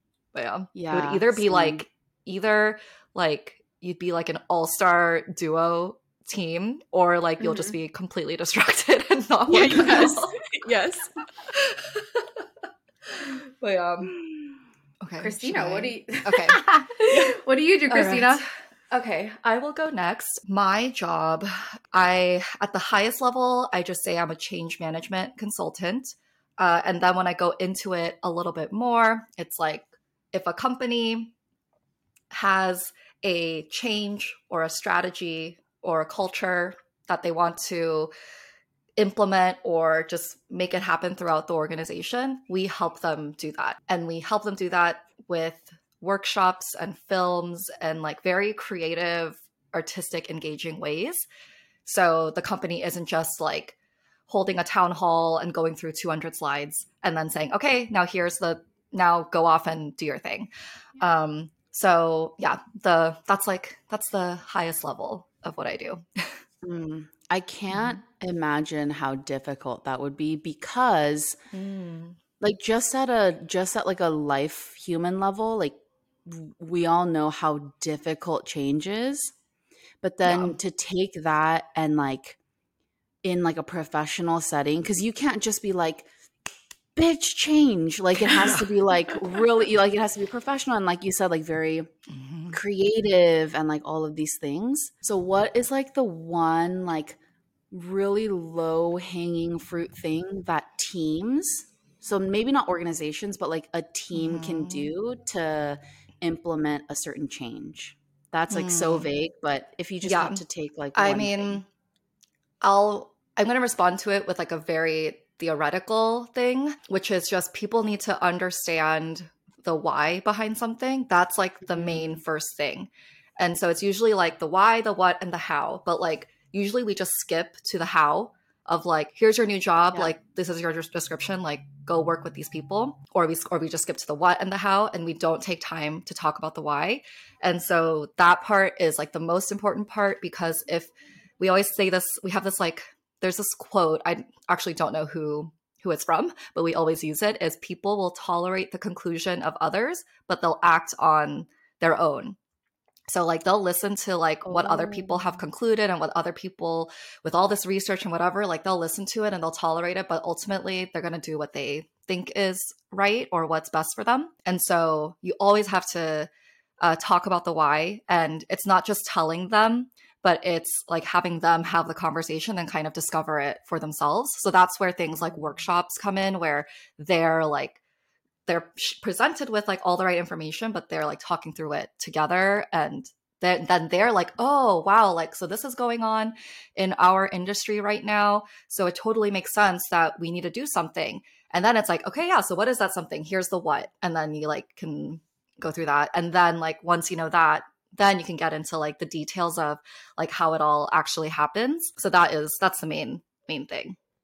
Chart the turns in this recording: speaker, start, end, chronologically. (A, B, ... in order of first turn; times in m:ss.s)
0:00.3-0:10.3 A
0:00.7-0:01.8 B
0:07.4-0:07.8 C
0:09.5-0:11.1 B
0:11.5-0:12.5 A
0:13.0-0:14.1 A
0:14.2-0:14.4 B
0:15.0-0:17.3 A
0:15.2-0:18.4 C
0:17.9-0:31.3 A
0:32.3-0:38.1 A
0:39.0-0:51.2 A
0:51.8-0:53.8 A
0:54.3-1:06.4 A
1:06.6-1:11.4 B
1:07.7-1:08.0 A
1:11.5-1:12.2 A
1:12.4-1:19.3 B
1:20.0-1:22.4 B
1:20.2-1:20.6 A
1:23.2-1:26.1 B
1:27.0-1:31.9 B
1:32.1-1:32.6 A
1:32.5-1:37.2 B
1:37.7-1:51.6 B
1:44.1-1:44.9 A
1:48.5-1:49.1 A
1:50.0-1:50.4 A
1:50.9-1:51.6 A
1:52.6-2:32.4 A
2:01.7-2:02.1 B
2:33.1-2:46.3 A
2:34.4-2:35.4 B
2:46.8-2:57.8 A
2:58.4-3:24.0 A